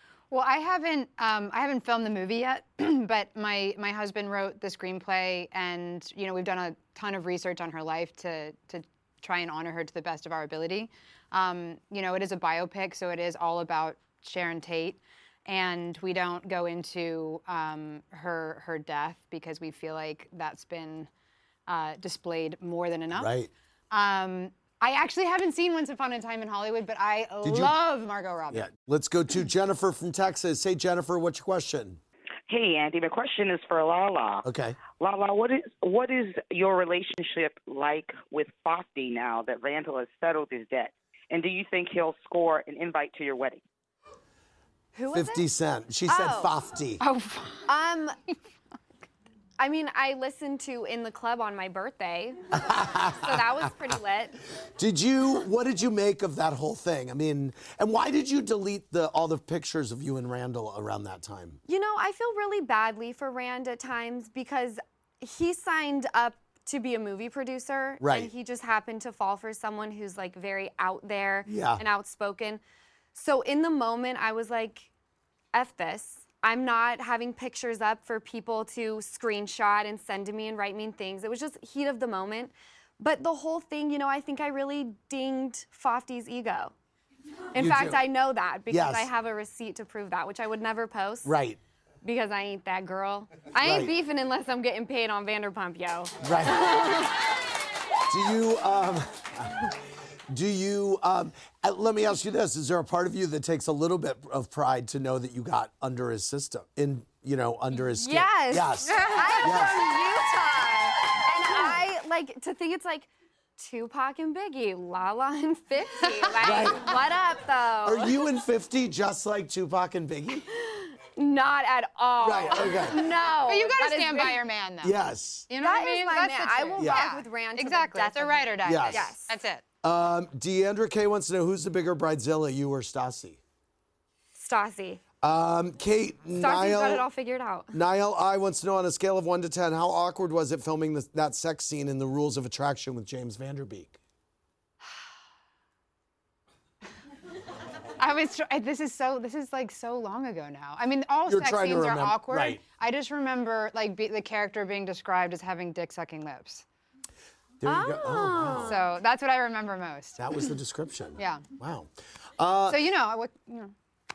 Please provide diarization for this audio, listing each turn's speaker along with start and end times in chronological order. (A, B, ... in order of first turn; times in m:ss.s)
0:00.3-0:21.1 A
0:21.7-0:23.3 A
0:23.2-0:23.5 B
0:23.9-0:28.7 A
0:27.4-0:27.7 B
0:28.5-0:32.0 B
0:32.5-0:43.6 C
0:34.4-0:34.8 B
0:44.9-0:45.4 D
0:45.1-0:47.0 B
0:46.1-0:46.5 D
0:47.0-0:47.7 A
0:47.7-0:48.2 D
0:49.6-0:52.4 D
0:52.5-0:53.7 B
0:53.2-0:54.4 D
0:54.8-1:01.6 B
1:01.7-1:12.6 D
1:08.0-1:08.3 B
1:11.4-1:11.8 B
1:13.1-1:14.9 D
1:15.5-1:26.7 D
1:27.5-1:31.3 D
1:27.6-1:28.1 B
1:28.7-1:29.1 B
1:31.2-1:31.6 B
1:32.0-1:37.2 D
1:33.6-1:33.9 B
1:36.2-1:36.8 B
1:38.1-1:39.7 B
1:40.3-1:49.9 B
1:47.9-1:58.2 D
1:48.9-1:49.5 A
1:56.2-1:56.8 A
1:56.4-1:57.0 B
1:57.8-2:00.4 B
2:00.5-2:04.4 D
2:02.2-2:03.0 B
2:02.8-2:05.0 A
2:04.8-2:05.5 B
2:05.5-2:09.6 A
2:05.6-2:09.3 D
2:06.8-2:07.0 B
2:08.6-2:09.1 B
2:09.8-2:13.4 B
2:14.3-2:15.0 D
2:15.2-2:17.0 B
2:16.4-2:17.7 D
2:17.7-2:23.9 B
2:28.0-2:36.6 A
2:31.3-2:32.6 B
2:37.6-2:38.8 B
2:37.6-2:38.9 D
2:38.6-2:40.2 A
2:40.2-2:42.8 B
2:41.2-2:41.4 A
2:42.7-2:43.7 A